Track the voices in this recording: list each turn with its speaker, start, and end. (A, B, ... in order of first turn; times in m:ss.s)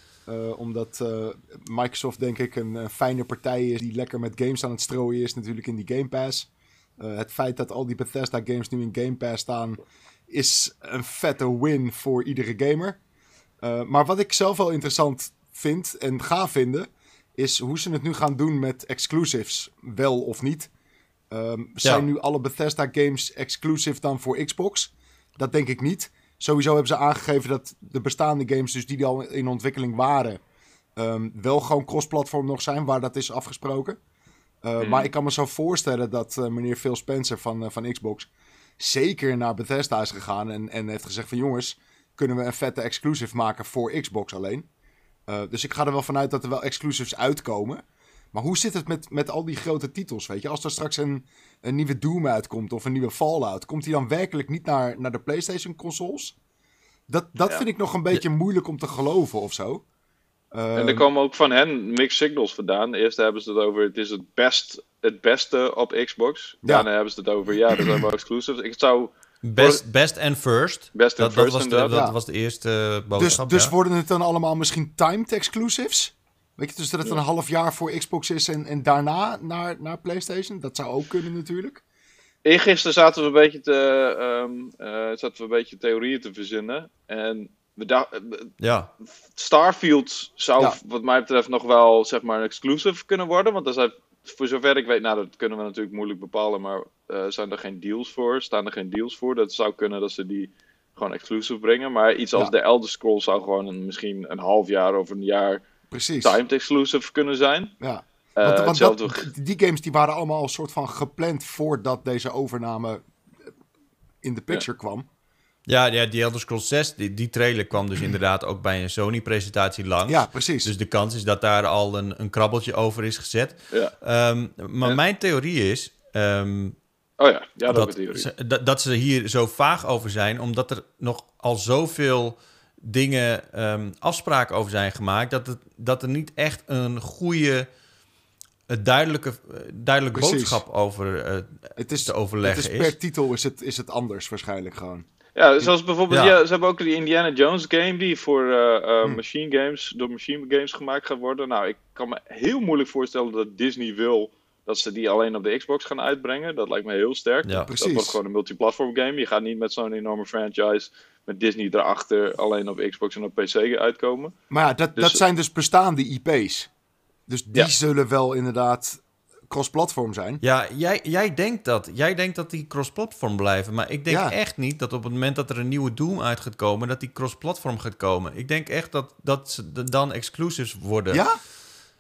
0:00.3-0:13.0 A
0:13.6-0:20.7 A
0:21.3-0:30.4 A
0:31.0-0:34.0 A
0:34.6-0:44.7 A
0:34.8-0:35.1 B
0:45.3-0:56.3 A
0:57.1-0:59.8 A
1:00.5-1:01.1 A
1:00.7-1:09.8 B
1:09.4-1:13.7 C
1:10.9-1:12.0 B
1:13.2-1:21.8 A
1:22.4-1:28.5 B
1:28.6-1:28.9 C
1:29.3-1:45.6 B
1:45.9-1:46.4 A
1:46.2-1:47.7 B
1:47.8-1:53.0 A
1:48.4-1:49.3 B
1:54.2-1:55.1 A
1:55.7-2:06.8 C
2:00.1-2:00.7 A
2:07.2-2:08.3 B
2:07.7-2:17.7 C
2:18.7-2:22.9 C
2:20.1-2:20.6 A
2:21.8-2:25.0 A
2:25.4-2:44.3 B
2:26.1-2:26.4 C
2:37.7-2:38.2 A
2:44.5-2:46.7 A
2:47.3-2:50.4 A
2:50.4-3:01.2 C
2:54.1-2:54.3 A
3:01.1-3:01.4 A